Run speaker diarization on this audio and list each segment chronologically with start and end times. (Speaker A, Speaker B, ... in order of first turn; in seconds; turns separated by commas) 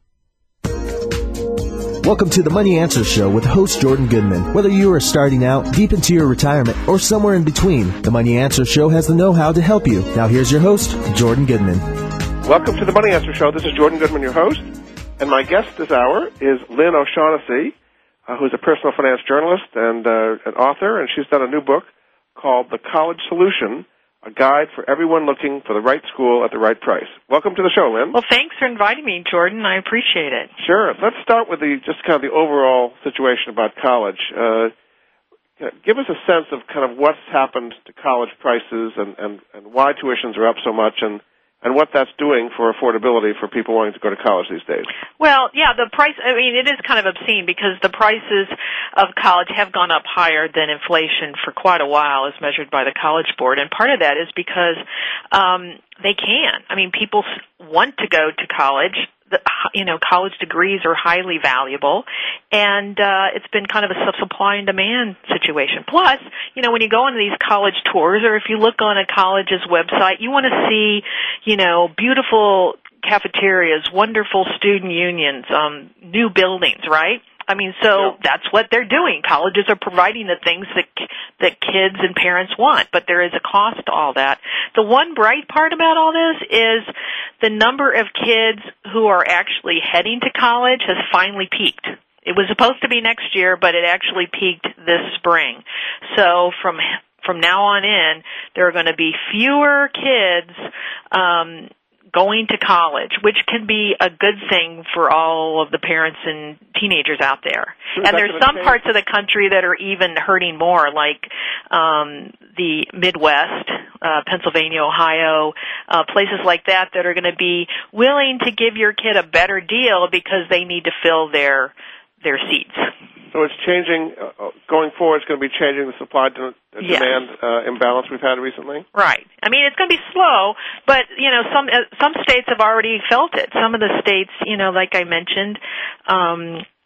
Speaker A: 2.0-11.9, Speaker B: 12.4-17.7, Speaker B: 18.3-28.1, Speaker C: 28.1-30.5, Speaker B: 30.6-34.7, Speaker B: 35.6-44.9, Speaker C: 45.2-54.8, Speaker C: 55.3-122.9, Speaker B: 107.9-108.8, Speaker B: 123.3-128.8, Speaker C: 126.8-127.2, Speaker C: 128.9-136.6